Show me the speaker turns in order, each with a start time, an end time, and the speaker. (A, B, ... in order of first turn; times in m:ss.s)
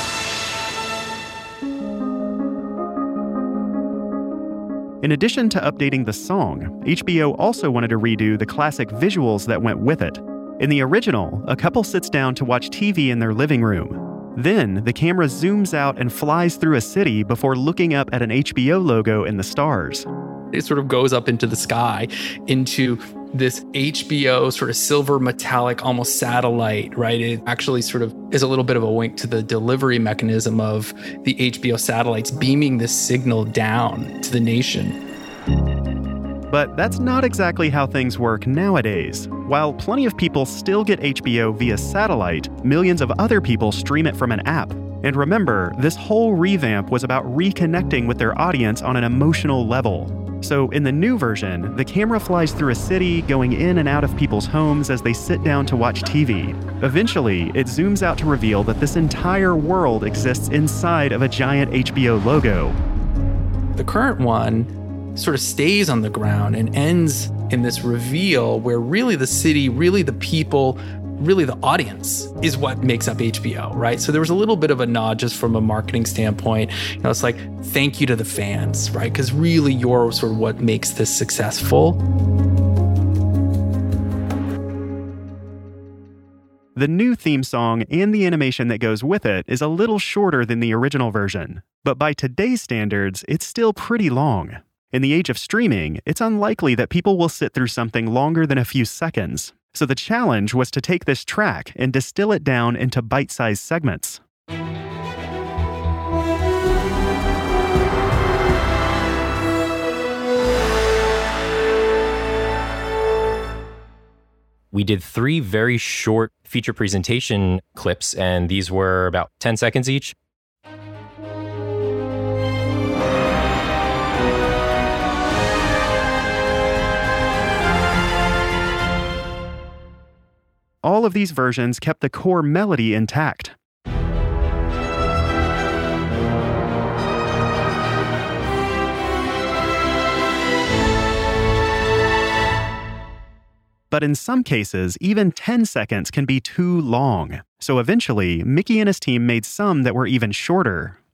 0:05.0-0:20.1 A
0:20.5-0:35.0 B
0:36.5-1:02.8 A
1:03.8-1:22.0 B
1:26.8-1:44.2 A
1:54.7-2:00.2 C
2:10.8-2:13.6 A
2:23.9-2:31.0 A